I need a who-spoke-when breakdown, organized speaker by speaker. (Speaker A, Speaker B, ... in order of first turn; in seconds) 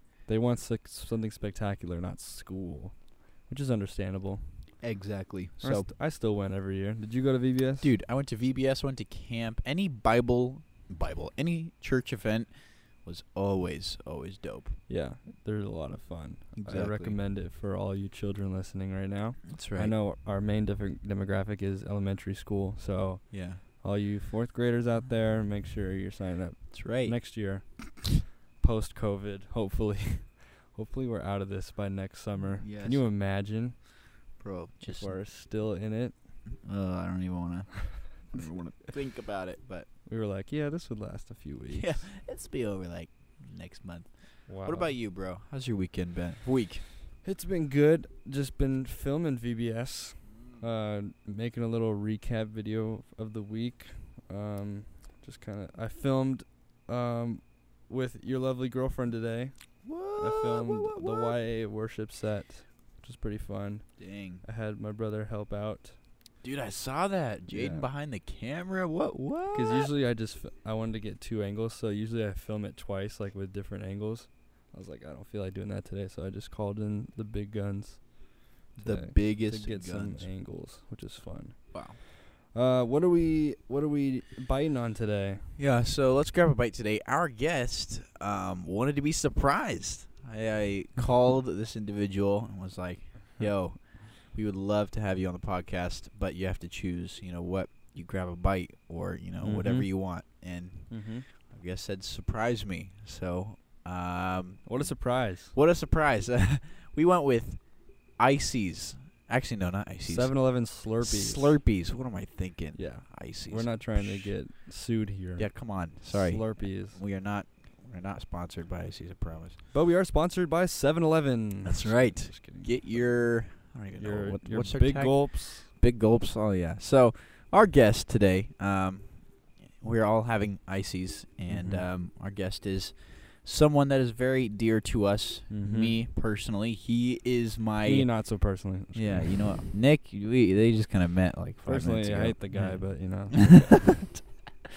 Speaker A: 0.3-4.7, 5.6-7.9, 14.9-33.8, 34.8-36.1, 40.0-42.1, 44.5-45.0, 47.2-66.0, 67.5-67.9, 69.5-78.1, 78.7-85.5, 99.4-100.1, 100.9-101.2, 104.6-105.5, 110.0-111.6, 112.7-117.0, 119.7-122.9, 124.0-125.7, 131.5-131.9, 135.5-136.0, 137.8-139.6, 141.6-144.0
Speaker B: 4.8-5.9, 7.8-14.8, 16.6-17.2, 19.5-20.0, 23.3-23.6, 26.7-27.6, 32.6-33.1, 34.4-35.2, 36.6-39.9, 41.7-46.9, 50.3-50.6, 59.8-61.4, 64.0-64.4, 66.4-69.9, 78.8-80.3, 81.7-82.0, 85.5-114.4, 115.3-119.6, 121.6-138.3, 138.9-144.2